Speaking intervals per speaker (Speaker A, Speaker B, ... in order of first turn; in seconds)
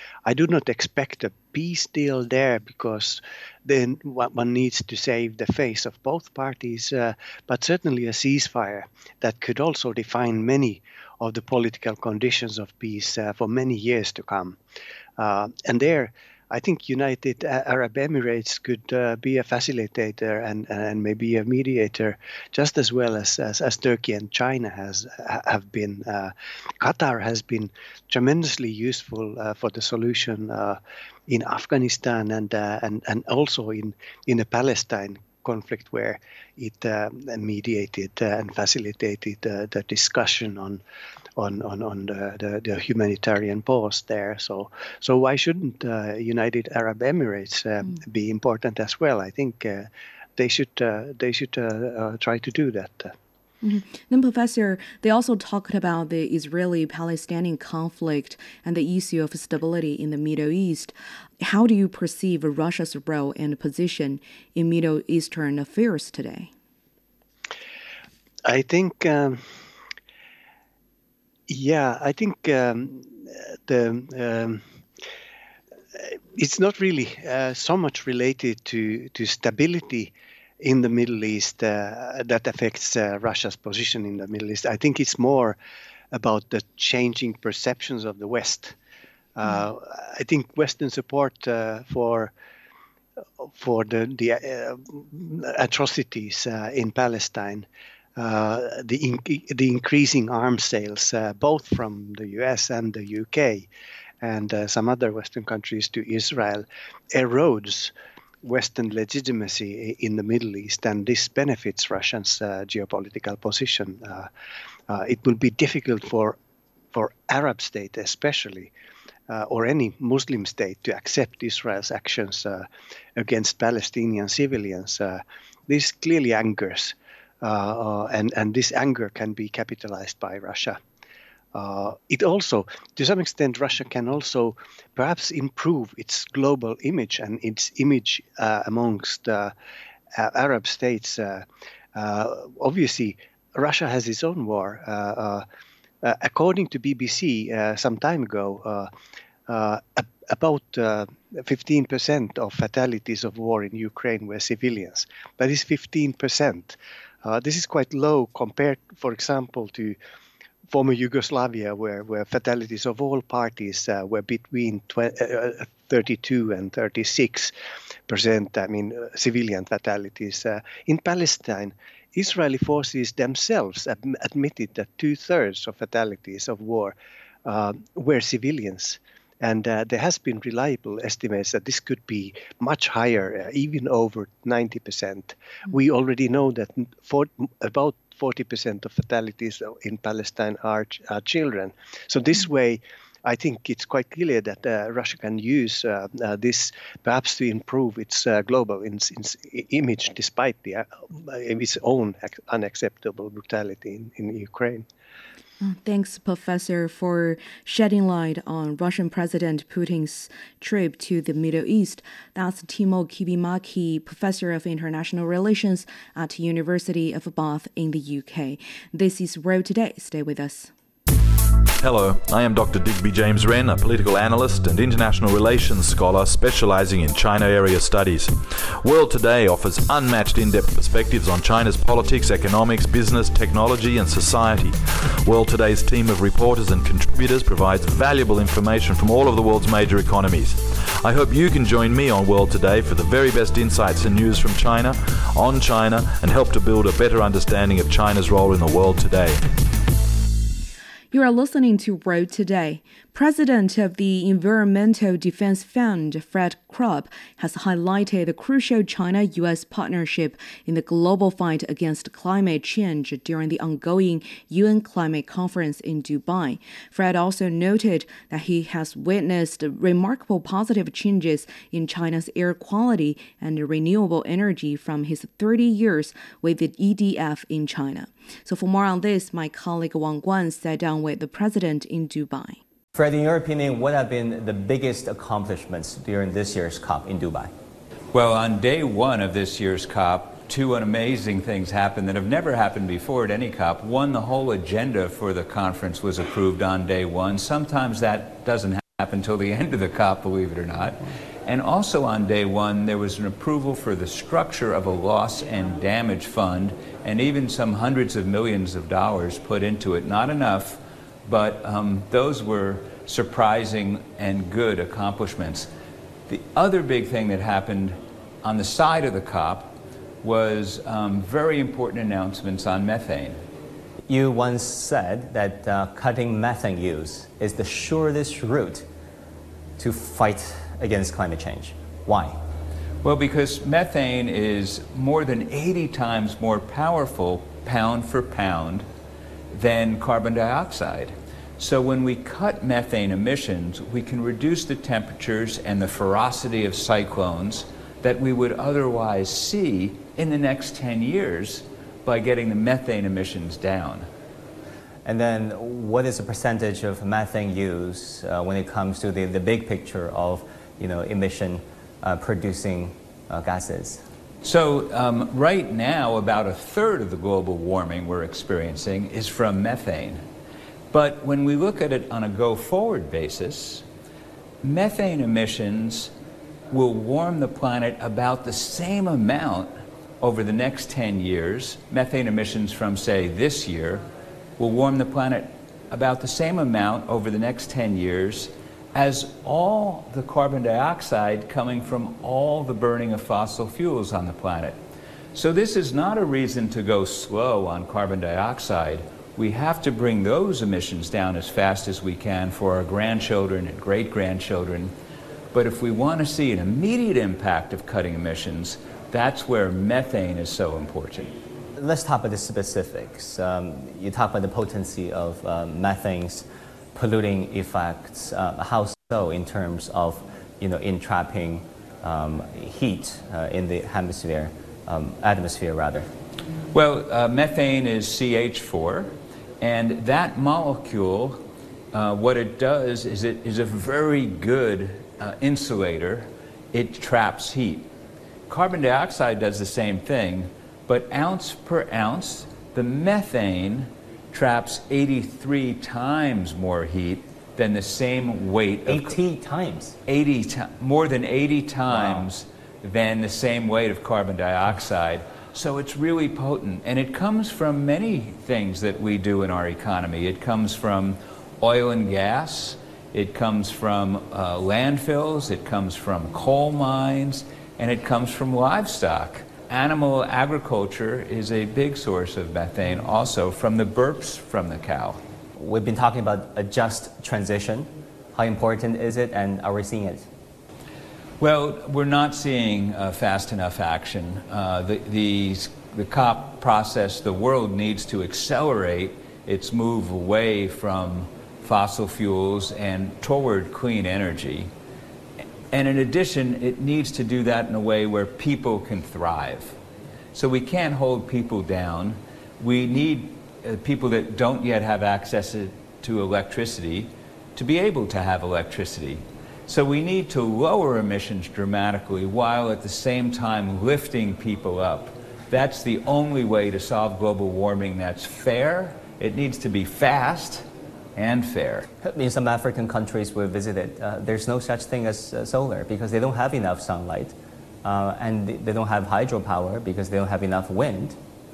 Speaker A: 0.3-14.6, 15.2-40.8, 41.4-53.1, 68.5-69.4, 71.5-74.6, 76.0-85.6, 86.1-88.8, 89.4-92.3, 93.4-103.7, 104.2-107.9, 108.4-114.3, 114.9-116.4, 116.9-118.7, 119.3-130.8, 131.6-139.5, 140.2-141.4, 142.0-145.4, 146.0-148.9, 149.5-160.0, 160.7-167.5, 168.1-204.9
Speaker B: 53.6-66.5, 205.6-220.7, 251.1-282.6
Speaker C: 221.8-249.4
Speaker D: 282.9-287.5, 324.1-328.9, 329.8-332.4, 355.1-364.0, 411.8-426.1, 448.9-450.0, 475.6-480.3, 522.0-531.2
Speaker E: 288.1-315.7, 316.3-323.4, 333.0-338.9, 339.5-354.1, 364.4-370.2, 370.9-373.9, 374.6-376.1, 376.7-384.1, 384.6-394.8, 395.3-404.9, 405.5-411.3, 426.7-437.9, 438.5-449.2, 450.1-475.2, 481.4-494.7, 495.7-499.8, 500.3-520.6, 521.2-521.9